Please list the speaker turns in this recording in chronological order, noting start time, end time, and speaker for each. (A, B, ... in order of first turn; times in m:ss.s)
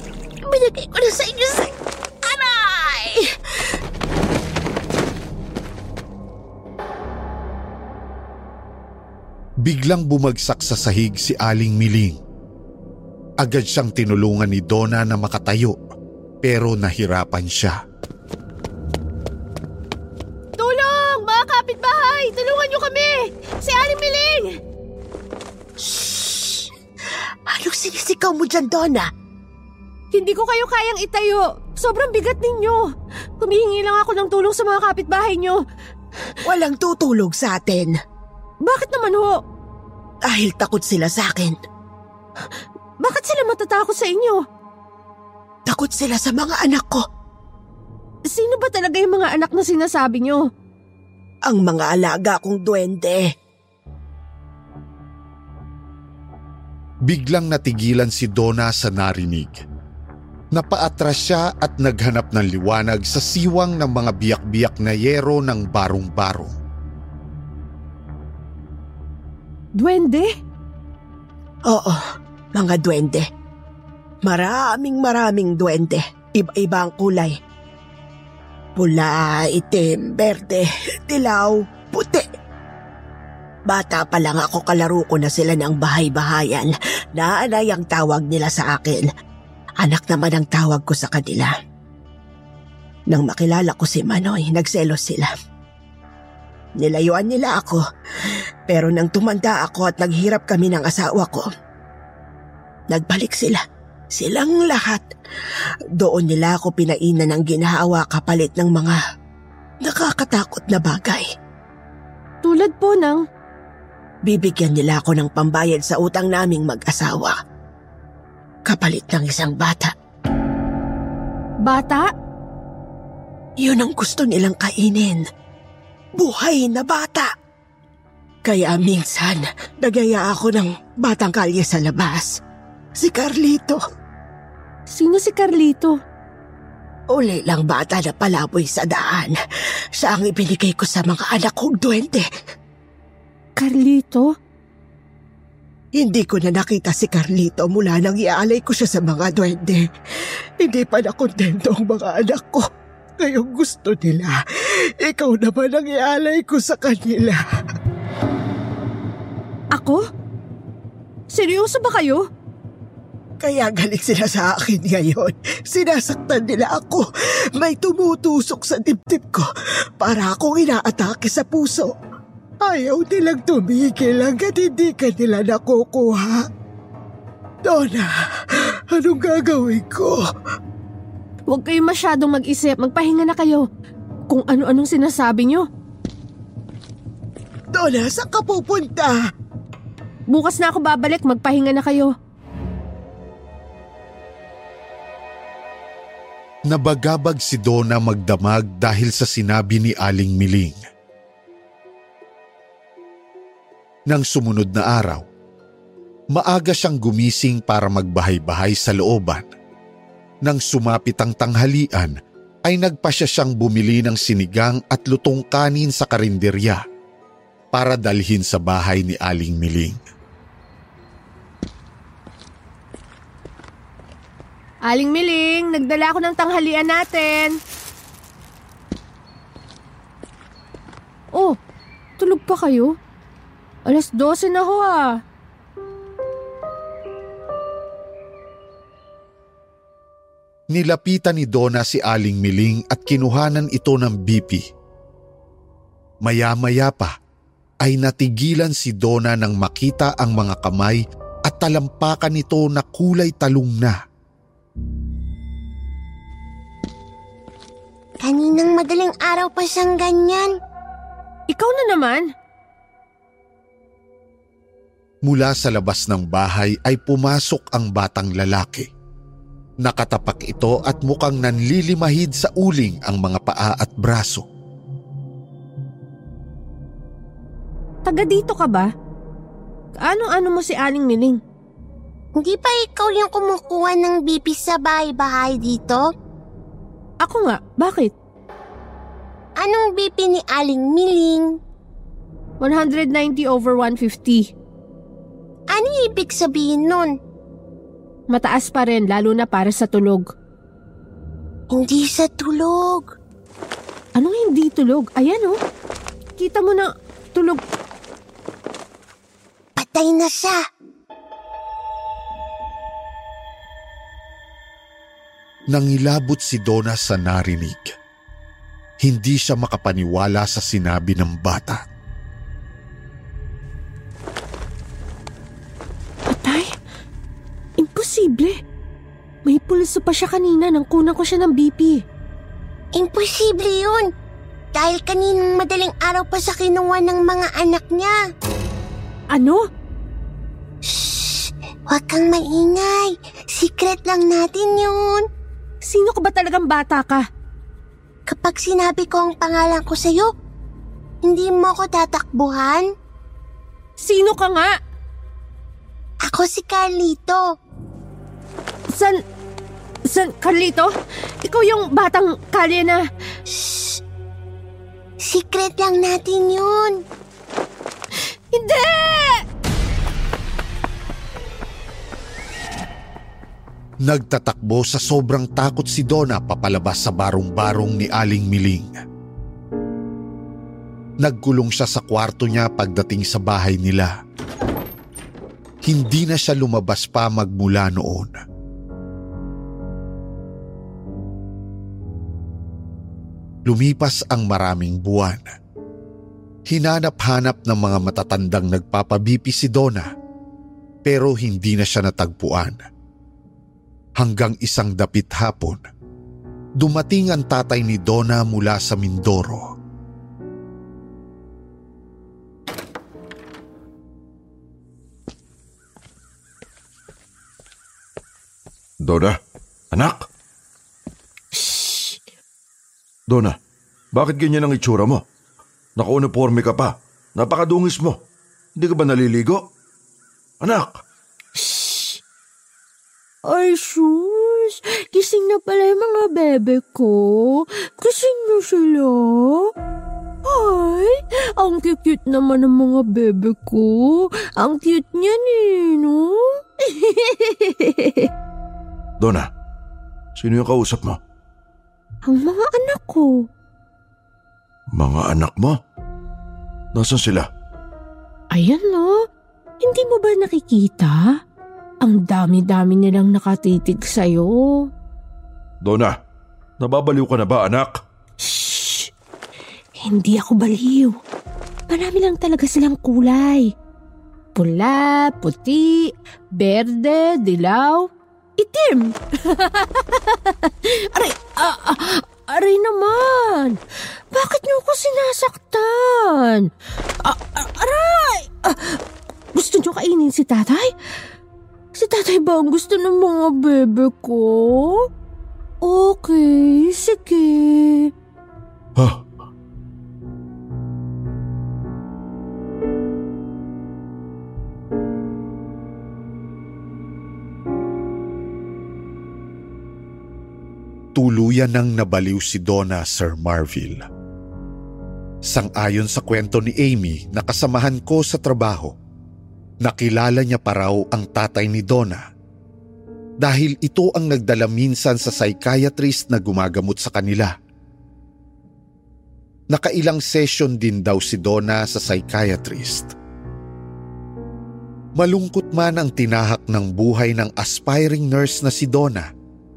0:00.4-0:03.3 A
0:09.6-0:12.2 B
0:13.4-0:15.8 B
0:16.4-0:17.8 B
0:20.6-0:24.6 C
0:25.8-0:26.7 A
0:27.5-0:29.1 A
0:30.1-0:32.8 C
0:33.4-0:35.6 C
0:36.4-0:37.9 A
0:38.6-0:39.4 C
0:40.2-0:41.6 A
0:43.0-0:44.4 C
0:45.7-0:47.0 A
0:48.3-0:50.4 C
0:51.5-0:53.3 A
0:57.1-0:59.6 B
1:00.5-1:06.5 B
1:09.8-1:10.3 C
1:11.7-1:12.0 A
1:12.5-1:13.3 A
1:14.2-1:17.4 A
1:18.8-1:22.2 A
1:23.7-1:29.1 A
1:29.8-1:31.5 A
1:33.1-1:35.3 A
1:36.8-1:37.8 A
1:38.7-1:41.4 A
1:42.9-1:43.6 A
1:44.1-1:45.0 A
1:46.0-1:49.0 A
1:49.8-1:51.2 A
1:52.4-1:53.2 C
1:54.2-1:57.4 A
1:58.7-1:59.9 A
2:01.6-2:02.1 C
2:03.6-2:05.2 A
2:06.2-2:07.3 A
2:08.4-2:12.3 A
2:13.0-2:13.8 A
2:14.9-2:16.0 C
2:17.1-2:19.3 A
2:20.0-2:22.2 A
2:23.6-2:24.3 C
2:26.0-2:29.8 A
2:30.6-2:32.6 A
2:33.2-2:34.4 A
2:35.0-2:37.4 A
2:39.7-2:40.0 C
2:41.3-2:42.2 C
2:43.4-2:47.0 A
2:47.6-2:49.5 A
2:50.0-2:51.9 A
2:52.6-2:56.4 A
2:57.6-2:58.1 A
2:58.9-3:00.2 A
3:01.5-3:03.7 C
3:04.3-3:05.6 C
3:07.7-3:09.2 A
3:10.3-3:12.1 C
3:16.7-3:20.8 B
3:24.1-3:25.2 B
3:26.3-3:29.5 B
3:30.4-3:36.8 B
3:37.7-3:40.0 B
3:44.9-3:47.5 C
3:52.2-3:52.9 C
3:53.9-3:55.2 C
4:00.7-4:04.6 B
4:06.2-4:07.1 B
4:07.8-4:14.0 B
4:18.2-4:20.5 D
4:21.5-4:22.3 C
4:25.2-4:28.9 B
4:29.8-4:34.4 B
4:38.0-4:38.9 C
4:40.0-4:41.4 C
4:42.4-4:46.1 D
4:47.2-4:48.1 C
4:49.6-4:51.6 D
4:52.6-4:54.5 C
4:55.7-4:57.1 D
4:58.3-5:00.3 C
5:01.7-5:03.1 D
5:04.2-5:05.6 C
5:06.4-5:07.6 C
5:09.8-5:10.6 D
5:15.7-5:17.9 B
5:19.0-5:21.8 B
5:26.3-5:26.7 C
5:27.8-5:28.6 C
5:29.4-5:32.0 C
5:32.9-5:34.1 D
5:34.7-5:38.2 D
5:39.3-5:39.6 C
5:40.8-5:45.2 D
5:45.8-5:47.2 C
5:48.3-5:50.3 D
5:51.2-5:52.9 D
5:54.0-5:54.8 C
5:56.2-5:57.5 D
5:58.9-5:59.2 C
6:00.1-6:00.9 C
6:01.4-6:03.0 C
6:03.5-6:04.0 D
6:05.2-6:07.0 D
6:08.5-6:09.4 C
6:14.0-6:19.0 B
6:21.2-6:24.2 B
6:25.8-6:28.4 B
6:33.6-6:35.5 B
6:36.7-6:40.1 B
6:41.0-6:42.8 B
6:44.2-6:45.8 B
6:46.8-6:49.7 B
6:59.0-6:59.4 E
6:59.9-7:00.3 E
7:01.5-7:02.2 C
7:03.3-7:03.6 E
7:04.1-7:05.2 E
7:06.0-7:08.2 E
7:08.8-7:09.6 E
7:10.6-7:11.0 E
7:11.6-7:12.2 C
7:13.5-7:19.7 C
7:20.4-7:28.3 C
7:29.2-7:29.5 E
7:30.4-7:31.2 E
7:32.2-7:33.4 C
7:34.9-7:35.8 E
7:36.9-7:37.5 E
7:38.5-7:39.2 C
7:39.8-7:41.3 C
7:42.0-7:44.9 C
7:45.8-7:46.1 E
7:46.8-7:48.0 E
7:48.4-7:49.1 C
7:50.0-7:51.2 C
7:51.9-7:53.7 C
7:54.5-7:58.1 C
7:58.6-8:03.8 C
8:04.3-8:06.7 C
8:07.2-8:09.0 C
8:09.5-8:10.9 C
8:11.9-8:15.0 C
8:15.8-8:18.1 C
8:19.0-8:19.2 E
8:31.1-8:34.0 B
8:35.4-8:39.0 B
8:39.8-8:42.2 B
8:43.4-8:47.5 B
8:49.7-8:53.1 B
8:55.2-8:59.3 B